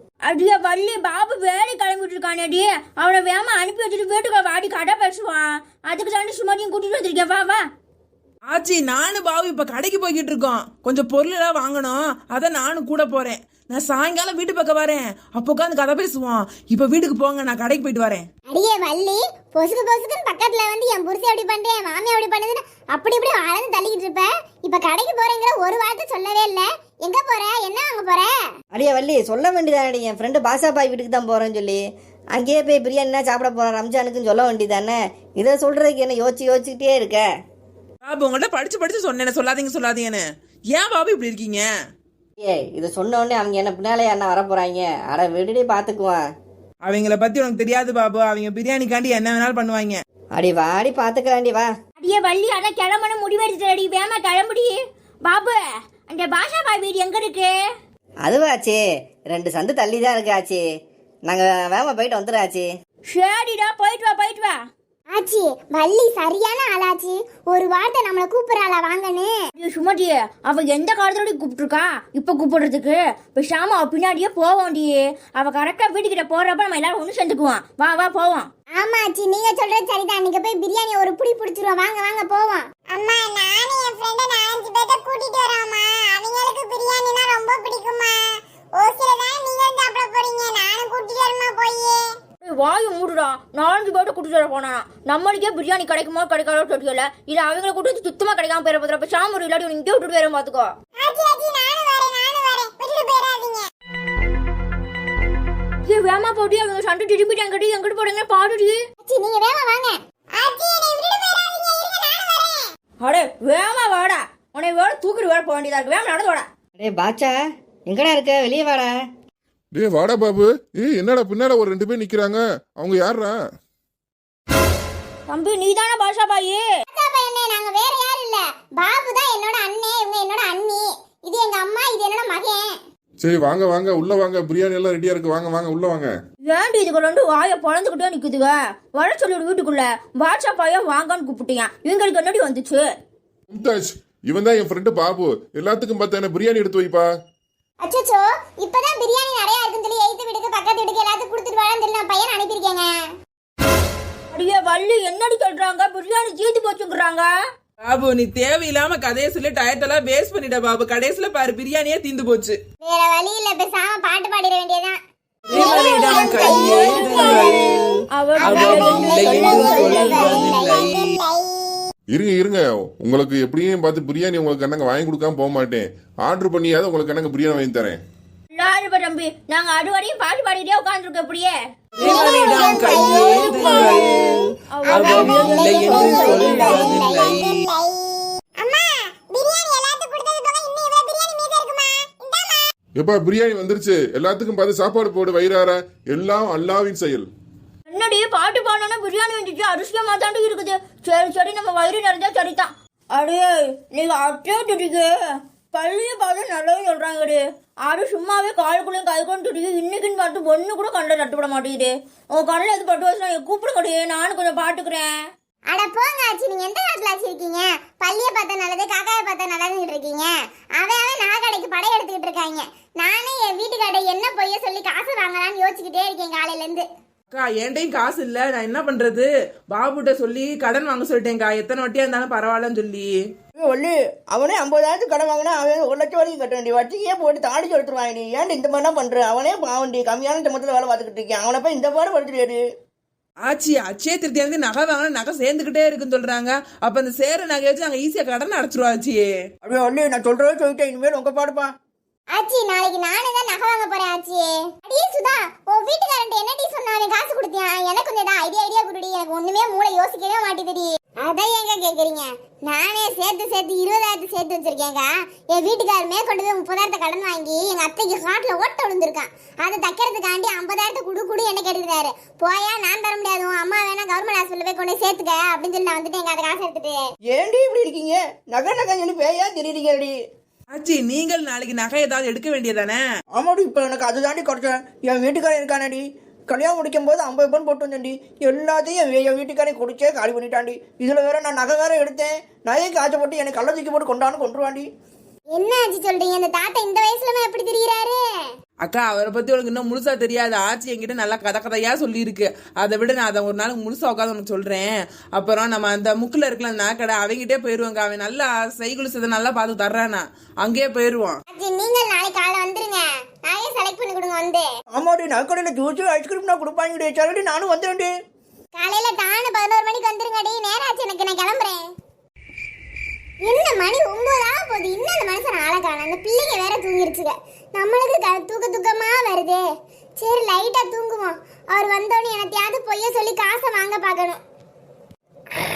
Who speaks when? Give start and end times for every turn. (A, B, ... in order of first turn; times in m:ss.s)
0:00.2-0:07.6 A
0:08.5-0:18.3 B
0:18.5-0:28.3 C
0:28.7-0:37.2 D
0:38.0-0:41.7 B
0:42.4-0:46.2 D
0:46.8-0:50.0 B
0:50.4-0:51.7 D
0:52.0-0:57.5 A
0:58.2-0:58.8 D
0:59.3-1:00.6 D
1:01.3-1:02.7 D
1:03.1-1:04.6 A
1:05.1-1:09.5 C
1:09.6-1:18.5 A
1:18.7-1:32.2 C
1:32.4-1:40.7 A
1:41.0-1:43.7 C
1:45.8-1:48.8 A
1:49.0-1:52.7 C
1:53.0-1:56.5 A
1:56.8-1:57.4 D
1:57.9-1:59.0 D
1:59.7-2:03.4 E
2:05.3-2:06.6 A
2:06.9-2:12.8 C
2:13.2-2:16.1 E
2:16.4-2:22.9 A
2:23.5-2:27.0 E
2:27.8-2:33.1 C
2:34.3-2:37.3 A
2:37.8-2:42.6 B
2:42.8-2:45.0 C
2:45.5-2:51.1 B
2:45.5-2:47.8 C
2:45.5-2:50.0 A
2:48.4-2:51.9 C
2:49.2-2:50.3 F
2:52.1-2:58.0 E
2:58.5-3:01.5 A
3:01.9-3:07.6 B
3:02.0-3:12.7 C
3:02.8-3:04.1 A
3:04.7-3:07.0 A
3:13.0-3:17.3 E
3:17.9-3:25.1 A
3:25.7-3:35.1 A
3:35.7-3:46.9 C
3:47.3-3:53.2 B
3:53.6-4:02.6 F
4:03.4-4:09.3 B
4:09.6-4:11.7 F
4:12.3-4:37.1 C
4:37.3-4:40.2 F
4:40.7-4:43.0 B
4:43.4-4:54.9 F
4:55.5-4:58.2 C
4:58.8-5:11.4 B
5:11.5-5:14.7 C
5:14.9-5:18.1 F
5:18.8-5:21.9 C
5:23.4-5:29.6 C
5:30.2-5:34.4 C